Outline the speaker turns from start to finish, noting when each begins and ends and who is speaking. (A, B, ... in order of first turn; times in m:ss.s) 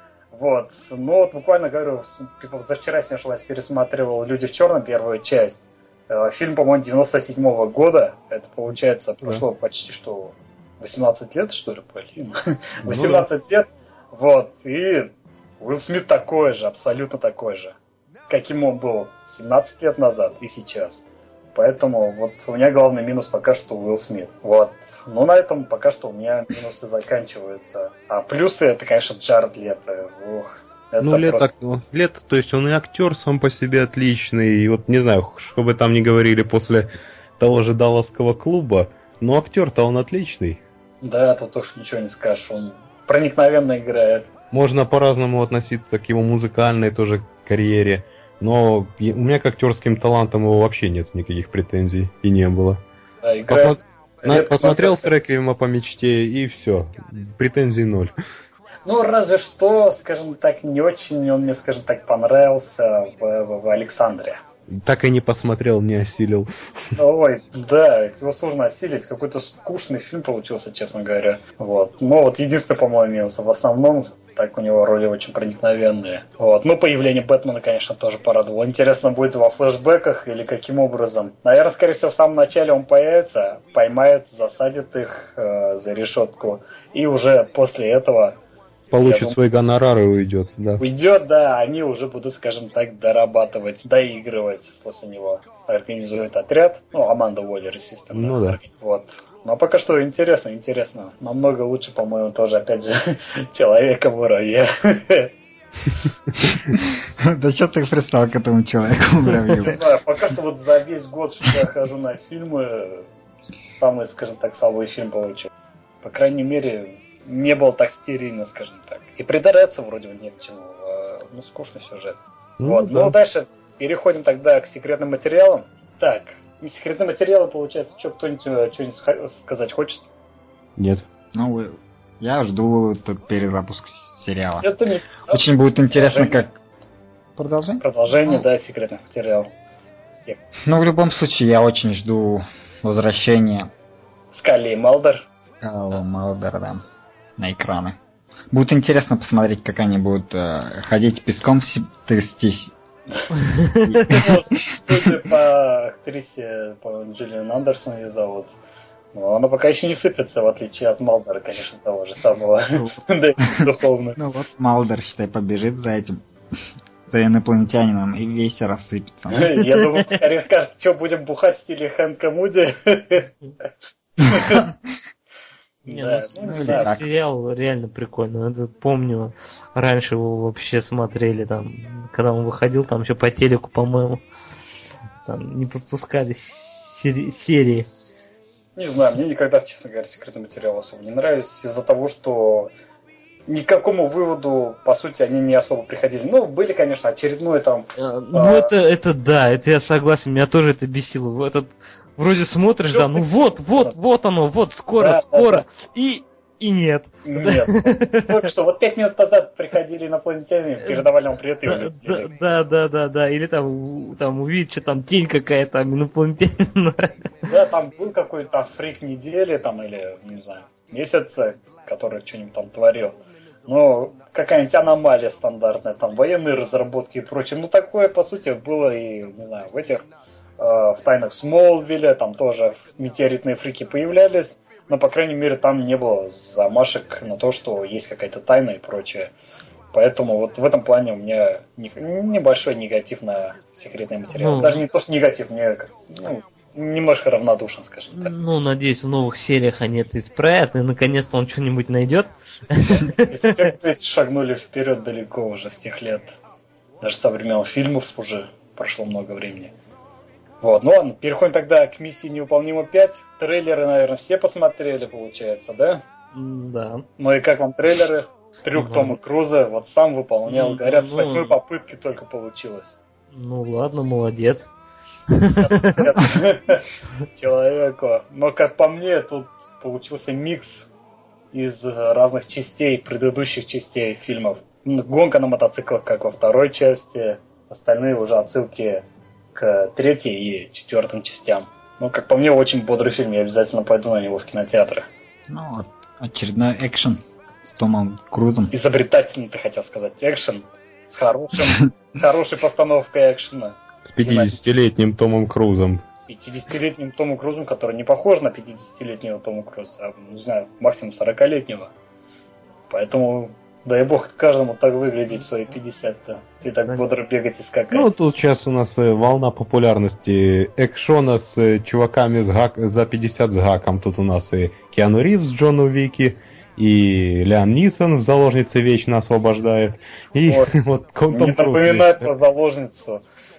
0:00.3-0:17.7 A
0:12.9-0:13.3 B
0:18.3-0:21.0 A
0:21.6-0:31.5 A
0:31.0-0:36.9 B
0:37.4-0:40.6 B
0:41.0-0:44.3 A
0:44.5-0:52.8 B
0:53.2-0:55.1 A
0:53.5-0:58.1 B
0:58.9-1:04.4 A
1:04.7-1:06.5 B
1:07.0-1:28.4 A
1:28.9-1:30.8 B
1:29.0-1:29.4 A
1:30.8-1:45.3 A
1:38.2-1:38.6 B
1:46.7-1:49.8 C
1:49.6-1:53.1 A
1:53.8-1:55.5 A
1:56.0-2:10.1 A
2:02.6-2:03.2 B
2:10.8-2:11.0 B
2:11.3-2:14.7 C
2:14.6-2:16.5 A
2:15.3-2:16.5 C
2:17.4-2:17.8 C
2:17.8-2:19.5 A
2:20.6-2:23.7 C
2:24.3-2:25.3 A
2:25.6-2:26.8 C
2:27.4-2:28.0 C
2:28.5-2:32.7 C
2:33.5-2:34.2 D
2:33.9-2:34.3 C
2:34.0-2:38.5 A
2:39.1-2:44.2 A
2:44.2-2:46.2 C
2:47.1-2:49.6 C
2:49.3-2:53.3 A
2:54.2-2:54.7 A
2:55.8-2:57.0 A
2:55.9-3:04.2 D
2:56.4-2:57.1 C
3:05.2-3:07.9 D
3:08.8-3:12.7 A
3:13.5-3:18.7 A
3:18.0-3:28.4 D
3:22.9-3:24.0 A
3:25.0-3:25.6 A
3:27.2-3:32.3 A
3:30.8-3:31.1 D
3:31.7-3:37.1 D
3:37.5-3:50.0 A
3:50.6-3:59.3 A
3:59.9-4:08.3 A
4:04.4-4:04.8 D
4:08.1-4:13.6 D
4:13.3-4:16.4 A
4:17.0-4:19.7 A
4:20.6-4:26.0 A
4:26.3-4:27.1 D
4:27.2-4:33.0 A
4:28.8-4:29.2 D
4:30.5-4:31.6 D
4:33.3-4:34.7 D
4:35.3-4:36.3 D
4:35.6-4:36.8 A
4:37.3-4:40.9 A
4:41.5-4:55.0 A
4:55.5-4:58.7 C
4:58.7-5:04.6 A
5:04.0-5:06.0 B
5:06.3-5:11.9 A
5:12.9-5:18.2 A
5:17.9-5:32.3 B
5:31.3-5:33.2 A